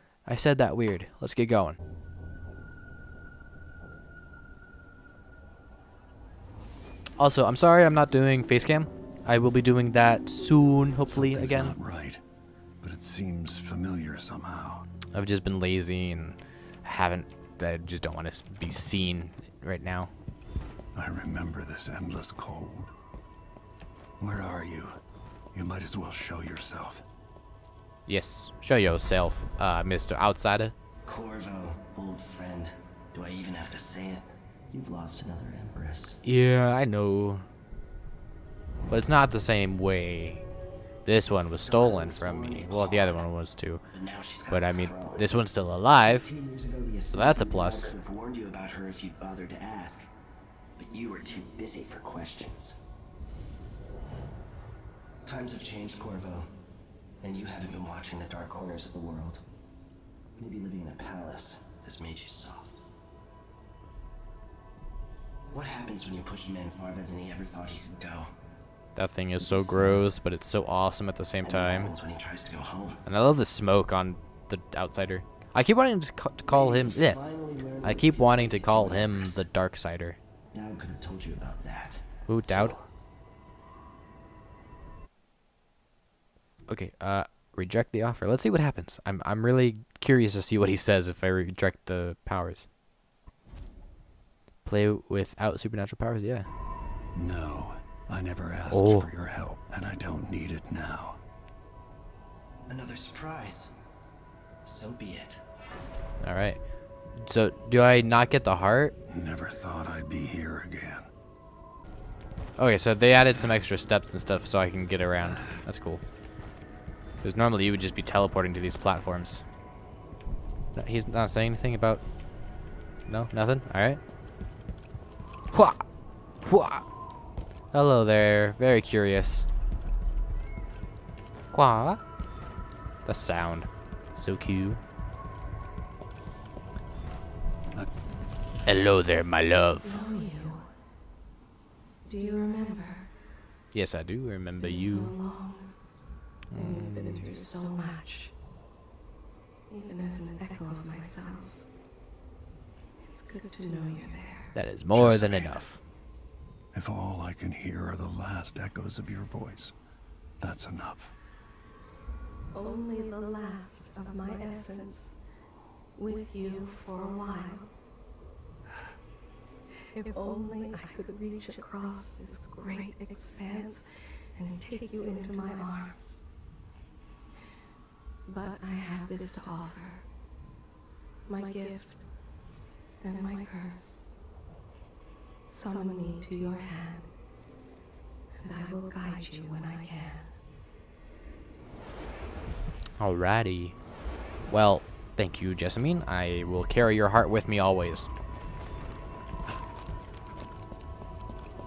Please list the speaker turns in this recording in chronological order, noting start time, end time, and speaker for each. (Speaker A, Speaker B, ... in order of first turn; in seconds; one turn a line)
Speaker A: 0.2-1.8
Speaker A: 7.2-11.7
Speaker B: 11.1-12.2
Speaker B: 12.8-14.9
Speaker A: 15.1-20.1
Speaker B: 20.9-22.9
Speaker B: 24.2-25.0
Speaker B: 25.5-27.0
Speaker A: 28.1-30.7
Speaker C: 31.1-36.2
Speaker A: 36.2-37.5
Speaker A: 38.9-40.4
Speaker A: 41.0-43.8
Speaker C: 41.6-43.3
Speaker C: 43.9-45.3
Speaker A: 44.5-46.3
Speaker C: 46.0-50.1
Speaker A: 47.1-47.9
Speaker C: 50.8-52.8
Speaker C: 55.2-56.5
Speaker C: 57.2-59.4
Speaker C: 60.4-62.8
Speaker C: 65.5-68.3
Speaker A: 69.0-71.9
Speaker C: 69.4-70.1
Speaker C: 71.4-73.0
Speaker A: 73.0-77.2
Speaker C: 76.5-79.4
Speaker A: 77.8-80.2
Speaker C: 80.5-82.8
Speaker A: 82.2-82.7
Speaker A: 86.7-92.7
Speaker A: 94.6-96.5
Speaker B: 97.1-101.2
Speaker A: 98.7-99.1
Speaker C: 102.7-103.7
Speaker C: 104.6-105.4
Speaker A: 106.2-106.6
Speaker A: 107.2-108.9
Speaker B: 109.1-111.1
Speaker A: 112.6-116.0
Speaker B: 115.3-115.5
Speaker A: 117.2-119.4
Speaker A: 120.7-122.0
Speaker A: 123.1-124.0
Speaker A: 125.5-125.8
Speaker A: 126.4-126.8
Speaker A: 127.7-129.5
Speaker A: 131.5-132.0
Speaker A: 133.1-134.8
Speaker A: 138.7-140.0
Speaker D: 139.8-140.7
Speaker D: 142.1-143.1
Speaker A: 143.7-145.1
Speaker D: 144.5-145.8
Speaker A: 146.5-147.3
Speaker D: 146.5-148.3
Speaker D: 149.7-151.6
Speaker D: 153.0-154.5
Speaker A: 154.5-155.8
Speaker B: 154.9-155.5
Speaker B: 156.7-159.8
Speaker B: 160.4-161.1
Speaker D: 162.5-165.2
Speaker D: 165.9-167.7
Speaker D: 169.9-176.2
Speaker D: 178.2-180.1
Speaker D: 181.2-182.1
Speaker D: 183.0-184.1
Speaker D: 185.5-187.1
Speaker D: 188.4-190.3
Speaker A: 193.0-193.8
Speaker A: 194.5-198.1